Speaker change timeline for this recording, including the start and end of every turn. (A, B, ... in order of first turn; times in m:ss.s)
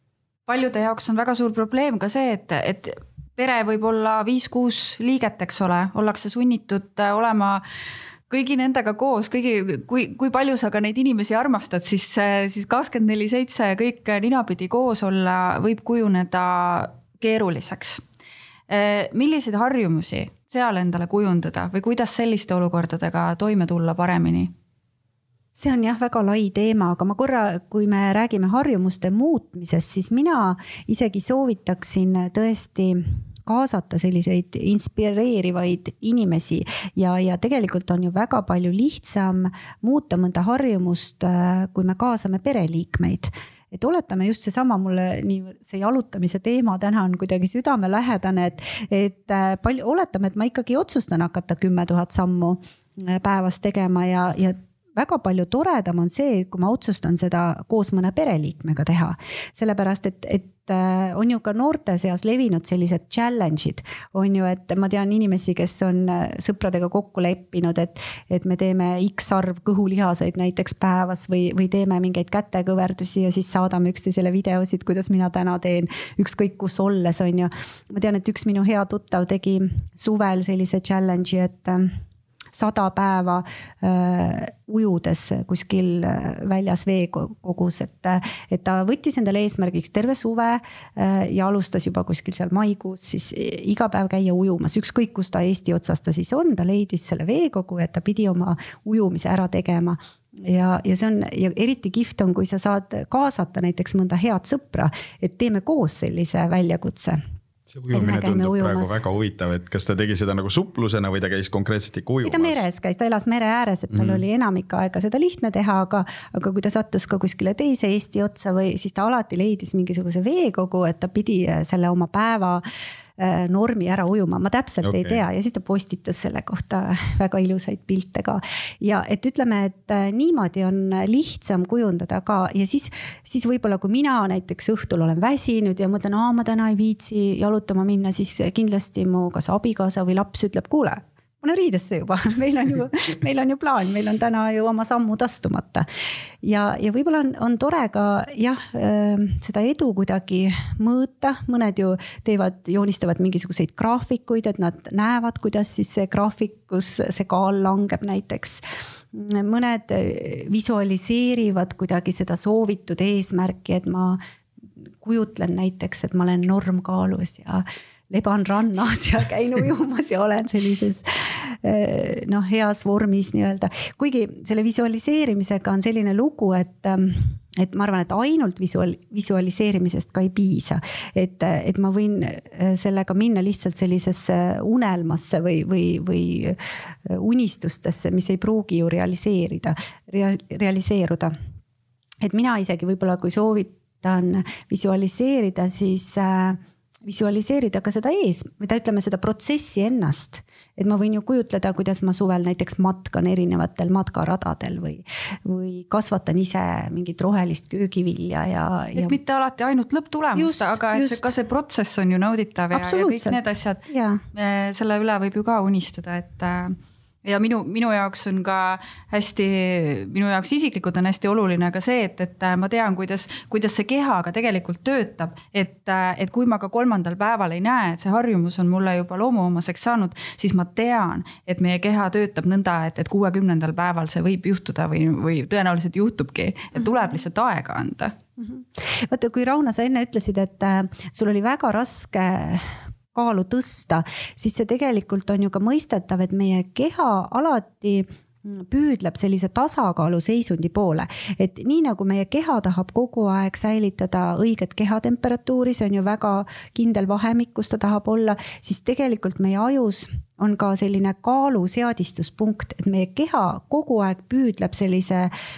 0:00.5-0:07.6 A
0:08.3-0:18.0 A
0:18.7-0:24.5 A
0:25.6-1:21.9 B
1:22.5-1:47.2 B
1:47.7-1:52.6 C
1:47.9-1:49.0 B
1:52.2-2:02.6 B
1:53.9-1:54.2 C
2:03.2-2:25.9 B
2:04.8-2:05.2 C
2:26.4-2:38.6 B
2:39.1-2:44.2 B
2:45.0-3:11.3 B
3:12.2-3:29.2 B
3:29.0-3:58.1 A
3:30.4-3:31.3 B
3:32.7-3:34.2 B
3:58.4-4:25.3 B